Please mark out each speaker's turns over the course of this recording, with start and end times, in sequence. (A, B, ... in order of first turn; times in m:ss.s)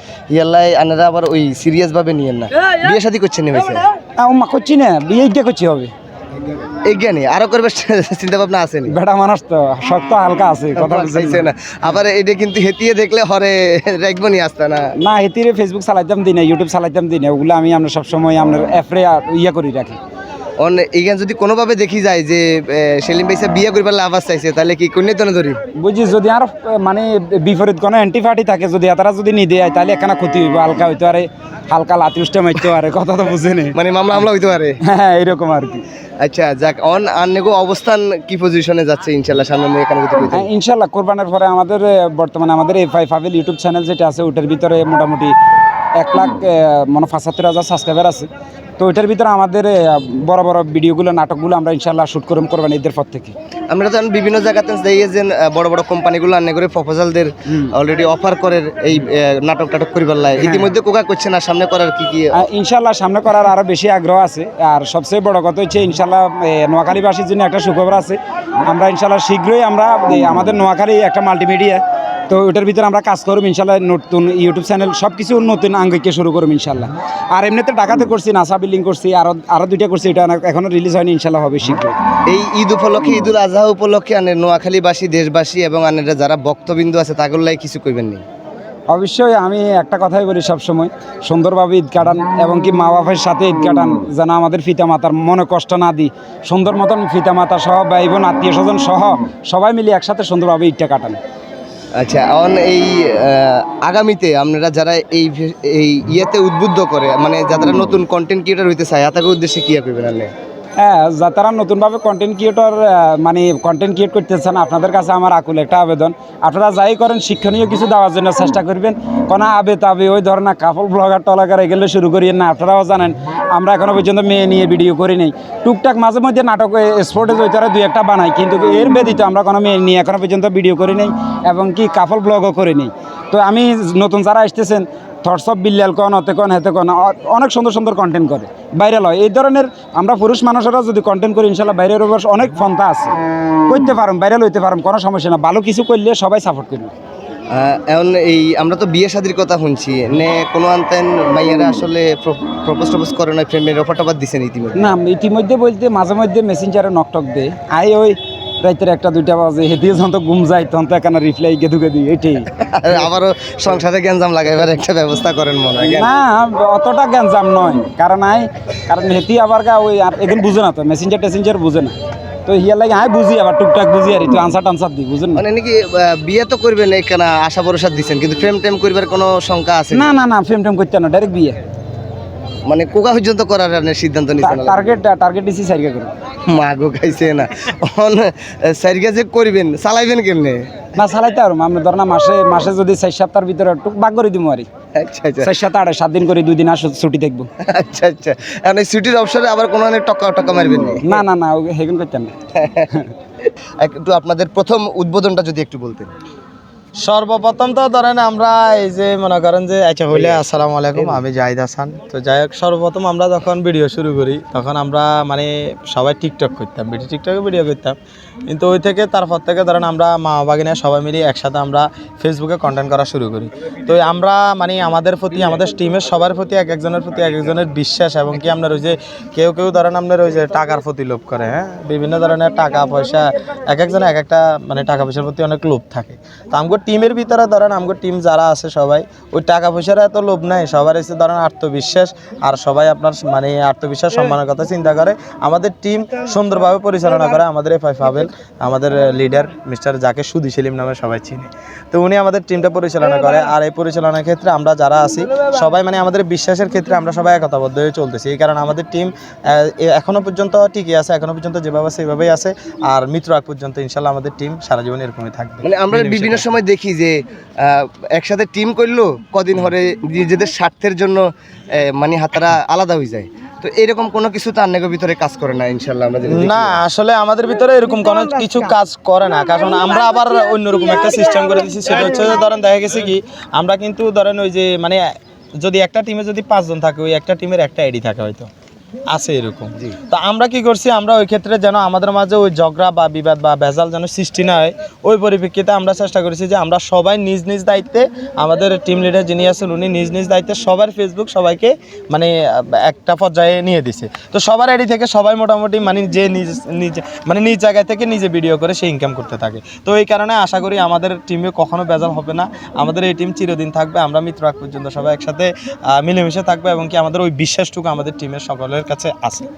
0:00.3-0:03.9 A
0:04.2-0:05.9 B
0:06.9-0:09.0 A
0:08.9-0:11.5 B
0:10.8-0:14.9 A
0:15.0-0:20.0 B
0:20.6-0:25.6 A
0:25.8-0:33.8 B
0:33.7-0:34.8 A
0:34.8-0:35.8 B
0:36.2-0:40.5 A
0:40.3-0:45.4 B
0:46.0-0:48.3 B
0:48.8-0:53.4 B
0:53.7-1:02.4 A
1:00.4-1:00.7 B
1:02.4-1:22.0 B
1:22.3-1:28.2 A
1:28.9-1:41.2 B
1:42.0-1:50.3 A
1:50.8-2:23.2 B
2:23.7-2:26.9 B
2:27.5-2:34.9 A
2:34.8-2:42.5 B
2:42.6-2:46.1 A
2:45.8-2:55.4 B
2:55.4-3:00.1 A
2:59.9-3:01.6 B
3:02.7-3:05.0 A
3:04.4-3:06.1 B
3:06.5-3:10.8 A
3:11.0-3:14.7 B
3:15.0-3:15.6 A
3:15.4-3:17.5 B
3:17.7-3:21.2 A
3:21.0-3:22.3 B
3:22.6-3:22.9 A
3:23.8-3:26.1 A
3:27.0-4:26.5 C
3:30.1-3:31.2 A
4:25.6-4:36.8 A
4:36.3-4:45.0 C
4:45.6-4:48.5 C
4:49.1-5:19.5 C